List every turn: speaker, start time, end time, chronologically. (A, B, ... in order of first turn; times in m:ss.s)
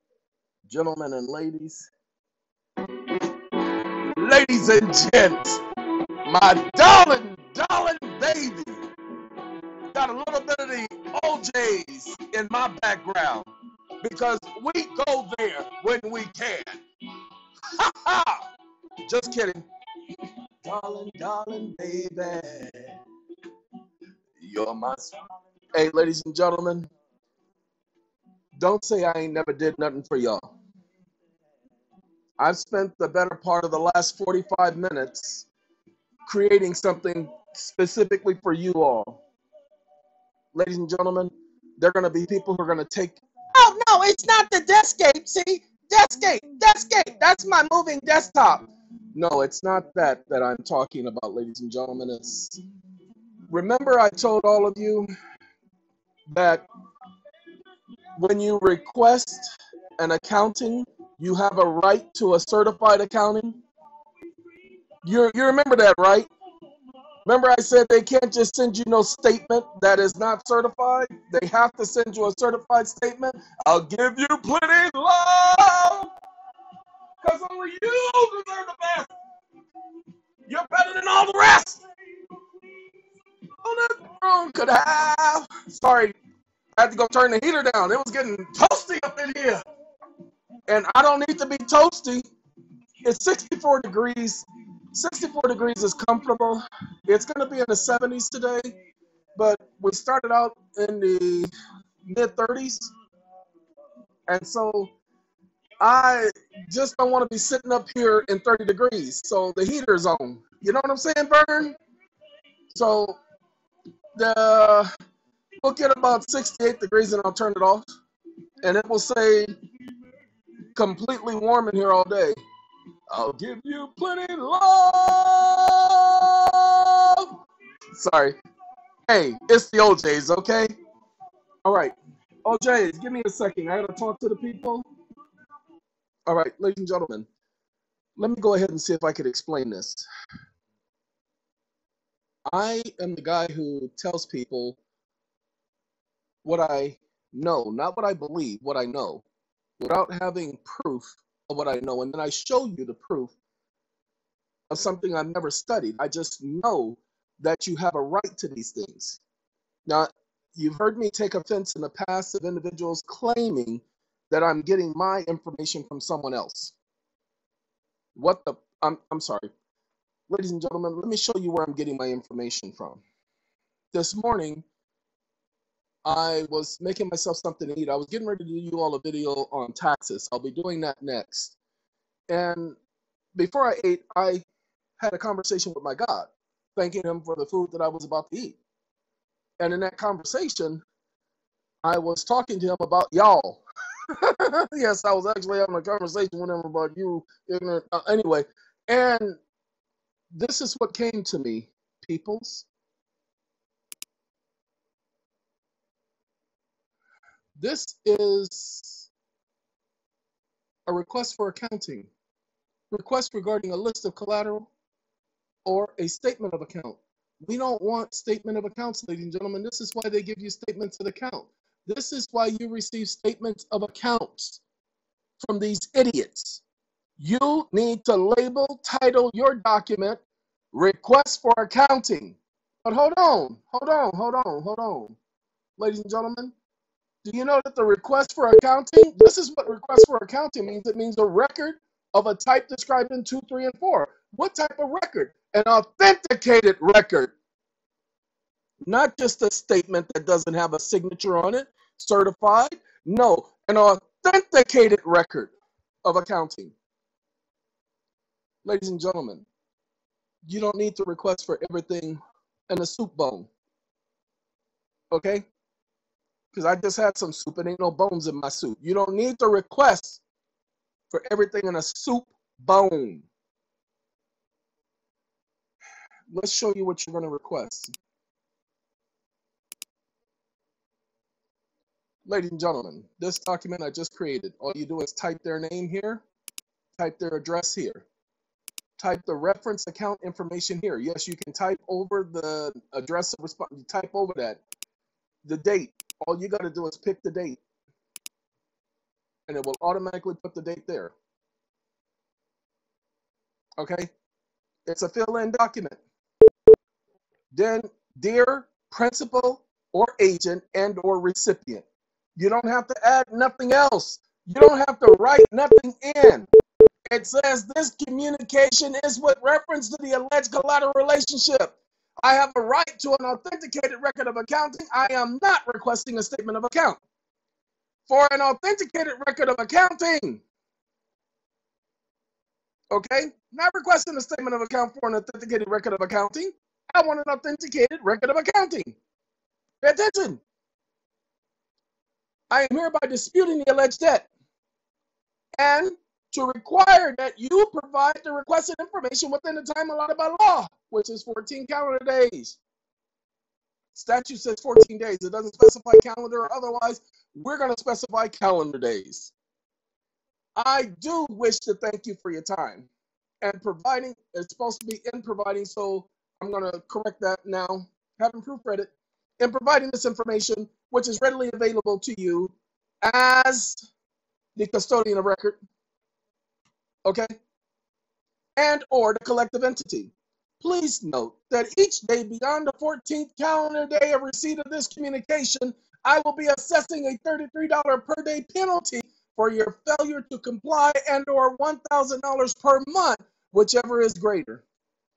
0:00.7-0:01.9 A
0:04.2-0:05.6 A
0:06.3-0:08.8 A
0:09.9-0:16.8 A
0:17.7-0:18.5 A
0:19.0-0:19.6 A
0:20.6-0:23.0 A
0:24.4-0:25.2 A
0:25.7-0:26.9 A
0:28.6-0:30.5 A
0:32.4-0:35.5 A
0:36.3-0:39.2 A
0:40.5-0:52.6 A
0:53.5-0:55.1 A
0:56.3-0:56.6 A
0:58.2-1:03.6 A
1:05.0-1:06.3 A
1:07.2-1:16.1 A
1:17.2-1:19.1 A
1:20.5-1:21.8 A
1:23.6-1:26.2 A
1:26.8-1:29.6 A
1:30.7-1:32.3 A
1:33.0-1:38.7 A
1:39.4-1:41.5 A
1:42.0-1:42.9 A
1:44.3-1:44.9 A
1:45.8-1:51.8 A
1:52.7-1:53.2 A
1:54.2-1:54.9 A
1:55.6-1:57.9 A
1:58.6-1:59.6 A
2:00.8-2:02.4 A
2:03.1-2:07.3 A
2:07.9-2:08.4 A
2:09.1-2:10.7 A
2:11.6-2:14.9 A
2:16.3-2:17.3 A
2:18.2-2:20.0 A
2:22.5-2:24.8 A
2:26.4-2:29.2 A
2:29.8-2:33.3 A
2:34.7-2:39.2 A
2:39.9-2:46.7 A
2:48.2-2:49.5 A
2:50.3-2:53.0 A
2:53.9-2:54.6 A
2:56.0-3:01.6 A
3:02.3-3:02.8 A
3:03.4-3:04.4 A
3:05.0-3:08.6 A
3:09.6-3:10.8 A
3:11.8-3:19.4 A
3:20.3-3:22.7 A
3:27.6-3:29.1 A
3:30.9-3:32.1 A
3:32.9-3:34.7 A
3:35.7-3:44.6 A
3:45.4-3:46.6 A
3:47.2-3:50.2 A
3:50.7-3:55.2 A
3:55.8-3:56.5 A
3:57.2-4:07.3 A
4:08.9-4:15.5 A
4:16.0-4:16.7 A
4:18.6-4:19.5 A
4:20.5-4:23.5 A
4:25.1-4:25.4 A
4:26.5-4:30.2 A
4:31.1-4:33.3 A
4:36.3-4:37.9 A
4:42.3-4:46.2 A
4:47.0-4:48.0 A
4:49.0-4:54.6 A
4:55.4-4:57.6 A
4:59.5-5:01.1 A
5:03.8-5:04.1 A
5:04.9-5:06.0 A
5:07.5-5:11.8 A
5:12.4-5:16.5 A
5:17.1-5:27.0 A
5:28.1-5:30.4 A
5:32.9-5:39.0 A
5:39.8-5:40.4 A
5:42.5-5:44.3 A
5:45.6-5:52.6 A
5:53.9-5:59.3 A
6:00.6-6:02.9 A
6:03.4-6:13.8 A
6:14.6-6:15.6 A
6:17.1-6:17.3 A
6:18.6-6:34.6 A